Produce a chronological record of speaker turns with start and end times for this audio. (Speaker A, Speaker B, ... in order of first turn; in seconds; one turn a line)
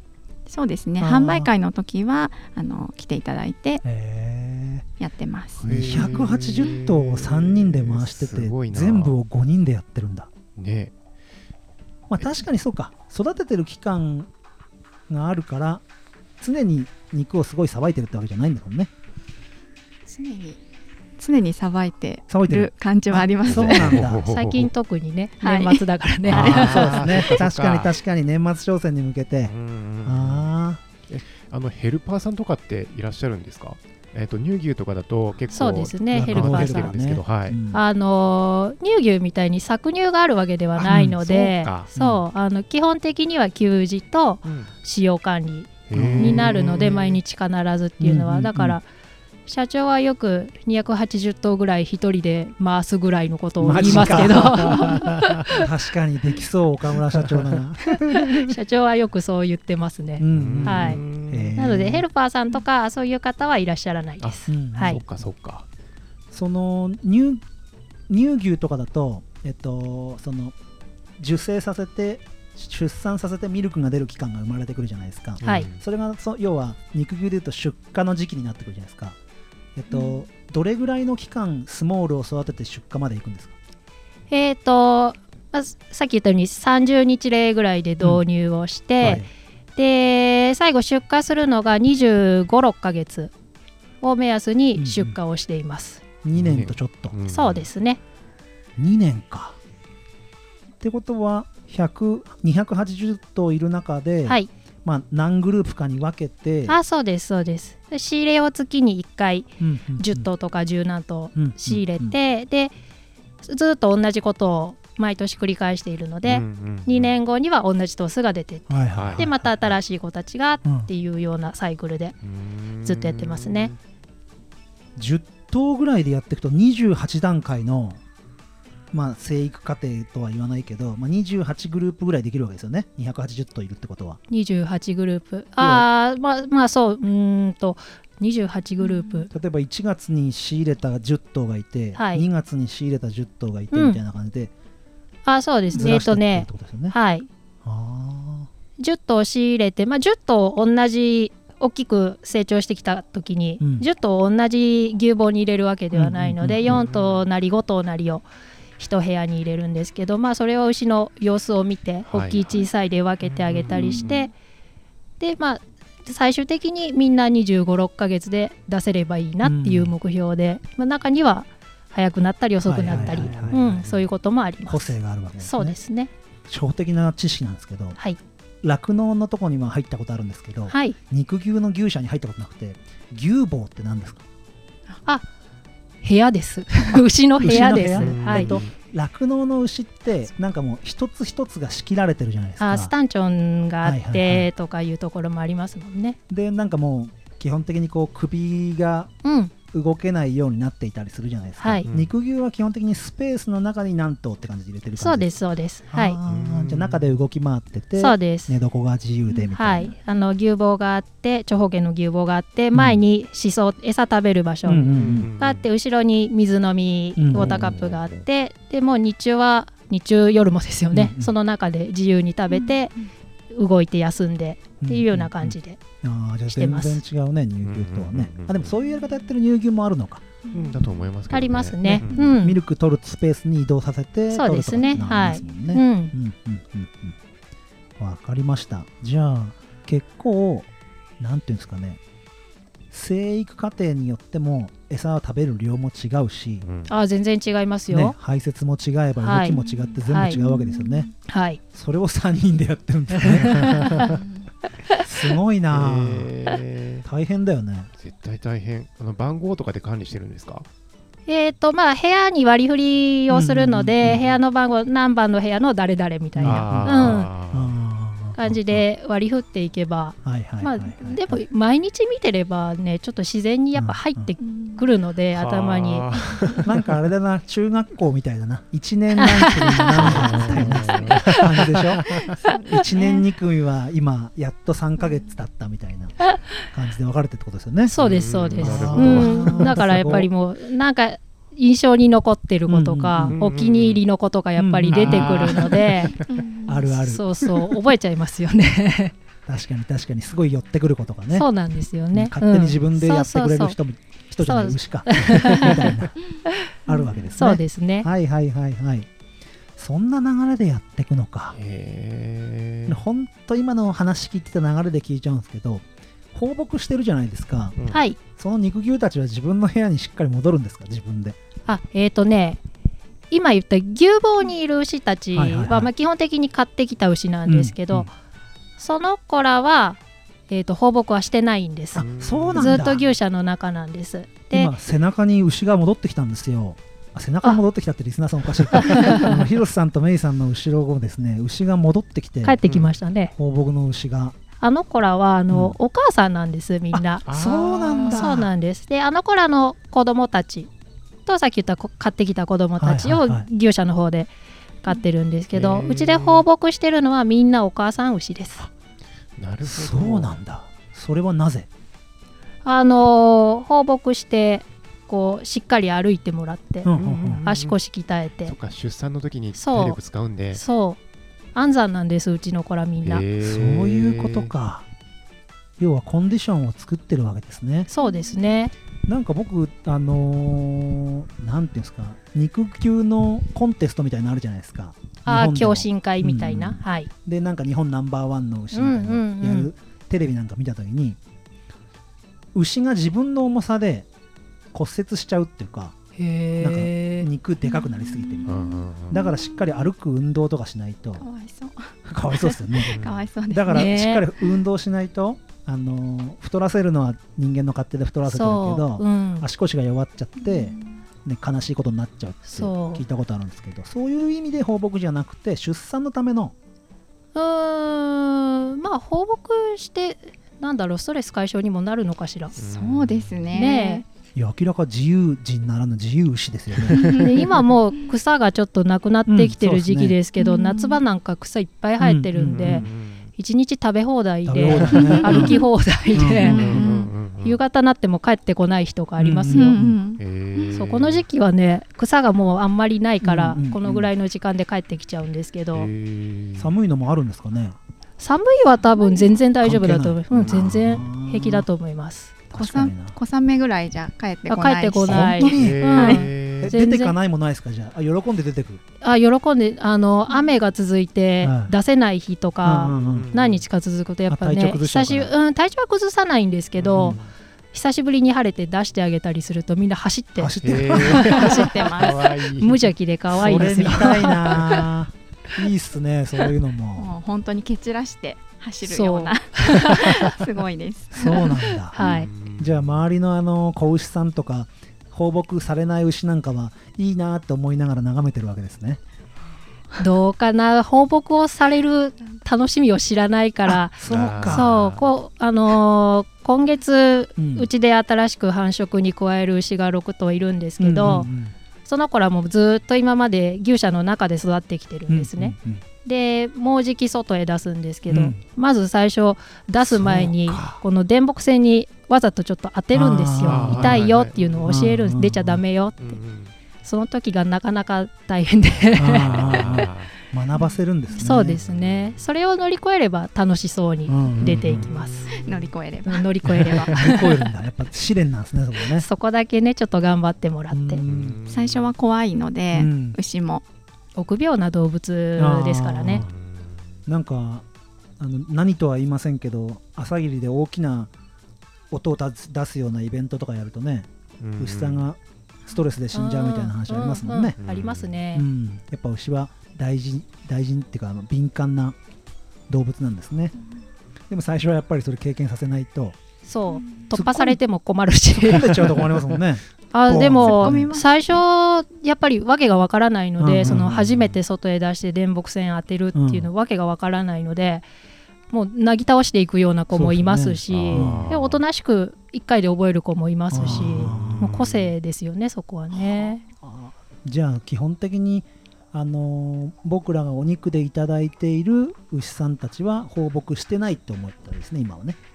Speaker A: 0.5-3.8
Speaker B: 1.0-1.5
Speaker B: 3.8-4.9
Speaker A: 5.0-6.0
Speaker B: 5.6-10.3
Speaker C: 5.6-9.2
Speaker C: 10.6-10.9
Speaker B: 12.1-14.3
Speaker B: 15.1-15.8
Speaker B: 16.4-18.9
Speaker A: 20.1-20.6
Speaker A: 21.2-24.1
Speaker B: 22.3-24.2
Speaker C: 23.4-24.7
Speaker D: 24.3-27.1
Speaker A: 25.4-25.9
Speaker C: 26.3-27.9
Speaker B: 26.3-30.8
Speaker C: 29.5-30.5
Speaker C: 31.1-37.6
Speaker D: 35.5-36.9
Speaker B: 36.1-37.8
Speaker D: 37.7-48.9
Speaker B: 40.8-42.2
Speaker C: 41.6-41.9
Speaker C: 44.4-44.7
Speaker C: 45.9-47.2
Speaker B: 45.9-46.9
Speaker B: 48.0-48.8
Speaker D: 49.5-55.6
Speaker B: 53.6-58.5
Speaker C: 53.8-55.5
Speaker C: 57.1-57.5
Speaker D: 58.1-61.0
Speaker B: 60.2-62.1
Speaker C: 60.3-61.5
Speaker D: 61.6-65.0
Speaker C: 64.2-65.7
Speaker B: 64.5-65.0
Speaker B: 66.3-67.4
Speaker B: 68.1-70.5
Speaker B: 71.2-79.2
Speaker C: 75.4-75.8
Speaker B: 79.8-83.5
Speaker A: 79.9-80.2
Speaker D: 84.3-89.2
Speaker B: 89.0-89.3
Speaker D: 89.8-93.3
Speaker D: 94.0-96.0
Speaker B: 94.8-95.2
Speaker B: 96.2-97.2
Speaker C: 96.3-97.7
Speaker D: 97.3-98.0
Speaker B: 98.8-99.6
Speaker B: 100.8-106.8
Speaker D: 106.7-112.7
Speaker B: 109.6-110.3
Speaker B: 111.4-112.2
Speaker D: 113.4-122.2
Speaker C: 116.3-117.2
Speaker B: 118.7-119.8
Speaker C: 119.0-119.3
Speaker C: 122.2-123.8
Speaker D: 122.8-123.7
Speaker B: 125.0-128.0
Speaker B: 128.9-134.2
Speaker D: 134.3-139.3
Speaker B: 135.6-135.9
Speaker A: 138.8-139.3
Speaker B: 139.3-144.5
Speaker D: 141.9-142.3
Speaker D: 143.7-144.0
Speaker D: 145.3-147.3
Speaker B: 145.7-147.0
Speaker B: 147.6-148.5
Speaker D: 148.8-158.2
Speaker B: 153.6-153.9
Speaker B: 155.9-156.8
Speaker C: 156.7-157.2
Speaker D: 158.8-164.3
Speaker C: 162.1-162.7
Speaker C: 163.2-164.2
Speaker A: 163.7-164.2
Speaker D: 165.2-176.1
Speaker B: 169.4-169.9
Speaker B: 172.6-173.8
Speaker C: 172.9-174.1
Speaker B: 174.6-175.8
Speaker B: 176.5-178.0
Speaker B: 178.6-184.2
Speaker D: 180.7-181.0
Speaker D: 186.0-188.7
Speaker B: 187.4-192.9
Speaker C: 187.9-188.7
Speaker D: 192.6-196.2
Speaker B: 193.8-194.5
Speaker B: 196.3-199.1
Speaker D: 199.2-199.5
Speaker B: 199.7-205.4
Speaker D: 201.6-201.9
Speaker C: 201.9-202.1
Speaker D: 205.0-206.2
Speaker B: 205.9-209.9
Speaker C: 206.3-207.1
Speaker D: 208.0-208.5
Speaker D: 209.5-222.9
Speaker B: 212.7-213.0
Speaker B: 214.7-215.3
Speaker C: 214.8-215.7
Speaker B: 217.2-217.8
Speaker C: 217.3-218.2
Speaker B: 220.9-221.3
Speaker A: 222.5-223.1
Speaker D: 223.5-225.8
Speaker B: 224.8-230.2
Speaker D: 226.5-227.0
Speaker C: 227.7-228.7
Speaker A: 230.4-231.1
Speaker C: 230.5-232.3
Speaker D: 231.3-232.6
Speaker B: 231.8-237.2
Speaker D: 234.3-236.1
Speaker B: 238.0-240.7
Speaker B: 241.2-242.0
Speaker B: 242.9-246.7
Speaker C: 246.6-246.9
Speaker D: 246.9-248.2
Speaker B: 247.9-251.1
Speaker D: 249.2-250.4
Speaker A: 249.6-251.1
Speaker D: 251.3-251.6
Speaker B: 251.7-254.0
Speaker D: 253.2-254.0
Speaker C: 253.7-254.2
Speaker A: 254.0-254.5
Speaker B: 255.0-256.3
Speaker C: 255.7-257.1
Speaker B: 257.1-257.9
Speaker C: 258.0-260.7
Speaker D: 261.3-267.3
Speaker B: 263.3-264.2
Speaker C: 264.0-264.4
Speaker B: 266.4-268.8
Speaker C: 266.4-267.8
Speaker D: 268.4-276.1
Speaker B: 270.2-271.4
Speaker B: 273.8-274.3
Speaker A: 274.4-274.9
Speaker C: 275.3-276.8
Speaker B: 276.6-287.9
Speaker D: 279.2-280.0
Speaker C: 279.9-282.3
Speaker A: 280.2-281.2
Speaker A: 282.3-283.2
Speaker A: 285.0-285.3
Speaker D: 287.9-296.1
Speaker C: 288.0-289.8
Speaker B: 288.6-290.3
Speaker B: 292.7-293.4
Speaker C: 293.2-294.0
Speaker B: 294.6-296.1
Speaker C: 294.9-296.4
Speaker A: 296.3-296.9
Speaker B: 296.7-297.8
Speaker D: 297.0-299.1
Speaker B: 299.5-301.5
Speaker D: 301.3-303.8
Speaker B: 302.1-306.1
Speaker D: 304.4-305.9
Speaker A: 306.4-307.4
Speaker B: 306.9-309.1
Speaker D: 307.4-308.1
Speaker B: 309.8-311.6
Speaker C: 311.6-313.0
Speaker B: 312.9-321.4
Speaker C: 317.8-318.0
Speaker D: 317.9-318.2
Speaker D: 321.7-322.6
Speaker D: 323.3-328.1
Speaker B: 325.4-325.9
Speaker B: 327.5-328.1
Speaker D: 328.8-334.7
Speaker B: 331.9-333.1
Speaker C: 331.9-332.9
Speaker B: 334.5-342.6
Speaker D: 338.8-339.3
Speaker D: 342.4-343.3
Speaker B: 343.4-344.4
Speaker D: 344.6-347.2
Speaker B: 345.5-345.8
Speaker B: 346.9-348.5
Speaker C: 347.3-348.3
Speaker D: 348.1-350.7
Speaker D: 351.3-354.3
Speaker B: 352.8-353.5
Speaker D: 354.8-358.7
Speaker C: 355.5-356.4
Speaker C: 359.4-360.3
Speaker B: 359.6-361.7
Speaker D: 362.6-368.6
Speaker B: 366.8-367.4
Speaker C: 367.0-367.8
Speaker C: 368.4-370.6
Speaker D: 369.6-370.0
Speaker D: 370.5-371.0
Speaker D: 371.6-373.2
Speaker C: 373.0-374.5
Speaker B: 373.4-374.9
Speaker B: 375.8-377.9
Speaker D: 377.9-378.7
Speaker A: 378.0-378.5
Speaker B: 379.1-391.2
Speaker D: 385.3-387.1
Speaker D: 388.7-389.7
Speaker B: 392.6-394.1
Speaker B: 394.7-396.0
Speaker D: 396.2-397.3
Speaker B: 396.6-401.2
Speaker A: 397.6-399.9
Speaker C: 398.5-399.3
Speaker A: 401.2-403.9
Speaker B: 402.1-416.6
Speaker C: 402.9-403.3
Speaker D: 403.7-404.2
Speaker D: 408.3-409.4
Speaker A: 410.4-411.0
Speaker D: 412.4-413.0
Speaker D: 417.4-422.5
Speaker C: 422.6-423.7
Speaker A: 422.6-424.1
Speaker D: 423.5-424.0
Speaker B: 424.4-427.1
Speaker C: 426.7-427.3
Speaker D: 427.1-432.9
Speaker B: 429.3-430.2
Speaker A: 430.4-431.0
Speaker B: 432.0-432.9
Speaker C: 432.6-433.3
Speaker D: 433.4-436.9
Speaker B: 434.5-436.9
Speaker A: 435.0-435.6
Speaker A: 436.4-437.1
Speaker C: 436.4-437.6
Speaker D: 437.4-439.8
Speaker B: 439.2-440.0
Speaker A: 439.5-440.8
Speaker C: 440.2-441.2
Speaker D: 440.8-445.9
Speaker B: 443.2-444.1
Speaker C: 445.7-446.7
Speaker B: 446.6-447.8
Speaker D: 448.2-452.3
Speaker A: 448.9-449.3
Speaker B: 449.6-451.7
Speaker B: 452.5-453.2
Speaker A: 452.5-456.2
Speaker D: 454.5-457.1
Speaker B: 455.0-456.0
Speaker C: 455.5-456.7
Speaker B: 456.6-458.8
Speaker D: 459.0-467.2
Speaker B: 461.4-461.7
Speaker B: 462.6-463.3
Speaker C: 462.9-463.6
Speaker B: 464.3-465.3
Speaker C: 466.8-467.3
Speaker B: 466.9-467.2
Speaker D: 467.7-471.7
Speaker B: 470.4-471.4
Speaker C: 470.6-473.9
Speaker A: 471.2-472.4
Speaker D: 472.6-474.9
Speaker B: 473.3-477.1
Speaker A: 477.0-482.3
Speaker D: 478.8-480.3
Speaker B: 481.1-482.0
Speaker D: 481.9-482.3
Speaker C: 482.0-483.0
Speaker B: 482.6-489.0
Speaker D: 490.0-501.3
Speaker B: 493.7-494.7
Speaker C: 494.0-495.1
Speaker B: 497.4-497.7
Speaker B: 500.8-501.5
Speaker D: 501.9-516.2
Speaker B: 505.1-505.8
Speaker B: 508.1-508.4
Speaker B: 509.8-510.8
Speaker B: 512.9-514.0
Speaker C: 513.5-514.8
Speaker B: 514.7-515.6
Speaker C: 516.0-516.5
Speaker D: 516.8-519.8
Speaker B: 519.0-521.6
Speaker C: 519.1-520.1
Speaker D: 521.1-525.3
Speaker C: 521.5-522.2
Speaker B: 524.1-524.9
Speaker C: 524.4-525.7
Speaker A: 525.3-526.3
Speaker D: 526.0-527.5
Speaker B: 526.7-529.1
Speaker D: 529.0-531.0
Speaker B: 530.7-531.4
Speaker C: 531.0-531.9
Speaker A: 531.5-533.6
Speaker B: 532.7-533.2
Speaker D: 534.2-536.3
Speaker B: 535.4-536.3
Speaker C: 536.1-537.0
Speaker B: 537.1-537.6
Speaker B: 538.2-541.1
Speaker B: 541.9-547.6
Speaker C: 544.4-545.0
Speaker D: 546.1-548.5
Speaker C: 547.6-548.1
Speaker B: 548.3-552.0
Speaker B: 552.7-553.5
Speaker B: 554.3-556.2
Speaker D: 556.5-559.0
Speaker A: 556.7-557.0
Speaker B: 557.1-557.6
Speaker B: 558.4-560.9
Speaker D: 559.9-567.9
Speaker A: 560.1-561.1
Speaker B: 563.4-564.1
Speaker C: 563.6-564.4
Speaker B: 566.1-566.5
Speaker D: 568.5-576.4
Speaker B: 569.9-571.3
Speaker C: 570.7-571.6
Speaker B: 573.5-574.6
Speaker C: 573.6-574.9
Speaker B: 575.9-585.2